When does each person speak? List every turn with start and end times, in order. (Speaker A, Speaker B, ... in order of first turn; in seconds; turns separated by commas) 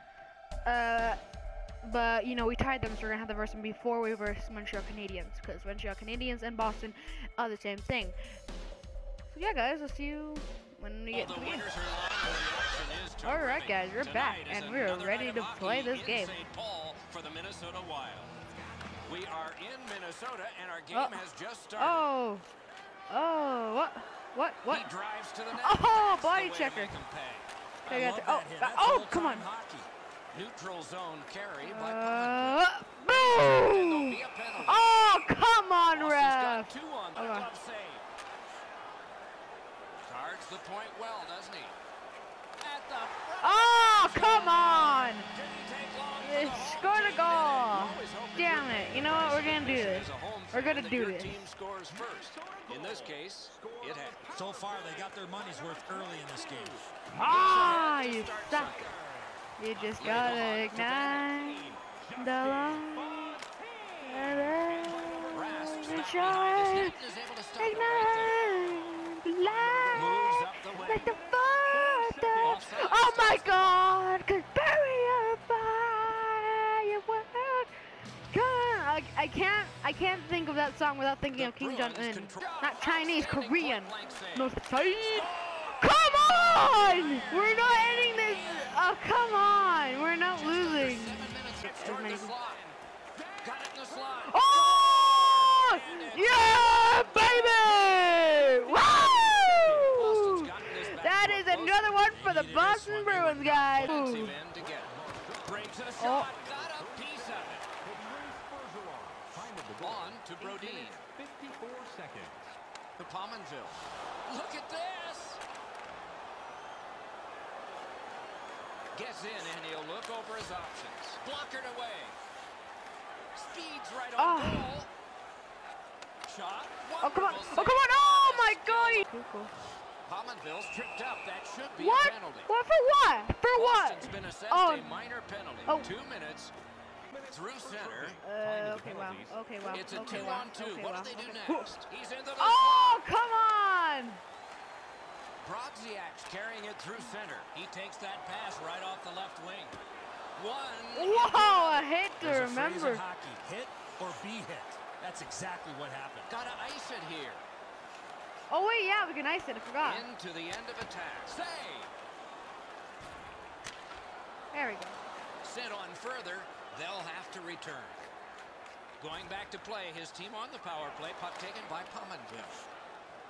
Speaker A: 0.6-1.2, Speaker A: 1.8-8.2, Speaker A: 9.3-11.7, Speaker B: 11.1-18.3, Speaker A: 13.2-16.4, Speaker B: 19.1-22.1, Speaker A: 20.9-21.2, Speaker A: 21.8-22.5, Speaker A: 23.1-24.9, Speaker B: 24.7-27.5, Speaker A: 25.5-27.0, Speaker A: 27.9-29.5, Speaker C: 27.9-29.9, Speaker B: 30.3-34.9, Speaker A: 31.6-37.5, Speaker B: 35.9-38.0, Speaker B: 40.0-41.8, Speaker B: 42.6-54.3, Speaker A: 43.4-45.3, Speaker A: 46.2-51.4, Speaker D: 51.9-56.8, Speaker C: 54.3-56.9, Speaker A: 57.1-58.9, Speaker B: 57.2-59.0, Speaker D: 58.5-59.3, Speaker A: 59.6-63.4, Speaker B: 59.8-61.4, Speaker D: 61.4-66.0, Speaker A: 64.0-67.0, Speaker B: 65.3-68.9, Speaker A: 67.6-77.7, Speaker D: 69.4-72.7, Speaker B: 69.9-71.1, Speaker B: 72.4-73.8, Speaker A: 78.3-92.3, Speaker B: 81.3-88.8, Speaker B: 90.4-92.7, Speaker D: 93.1-94.2, Speaker B: 93.4-97.9, Speaker A: 94.2-104.4, Speaker D: 97.6-99.9, Speaker B: 99.9-101.9, Speaker C: 101.9-103.9, Speaker B: 103.6-107.7, Speaker D: 104.0-112.6, Speaker A: 106.0-106.3, Speaker B: 109.8-111.1, Speaker B: 113.0-115.4, Speaker B: 118.9-122.2, Speaker B: 123.3-124.9, Speaker A: 124.2-124.7, Speaker B: 126.2-129.1, Speaker A: 127.0-129.5, Speaker B: 130.0-132.5, Speaker A: 131.8-134.9, Speaker B: 133.5-136.5, Speaker D: 137.1-140.4, Speaker B: 137.3-138.2, Speaker A: 138.2-141.8, Speaker B: 139.7-143.0, Speaker A: 142.4-144.2, Speaker B: 145.4-149.8, Speaker B: 150.3-151.9, Speaker A: 150.9-153.0, Speaker C: 152.2-156.3, Speaker B: 156.2-157.4, Speaker A: 158.5-160.1, Speaker B: 159.8-161.9, Speaker A: 164.5-165.0, Speaker B: 165.4-168.0, Speaker B: 169.0-172.7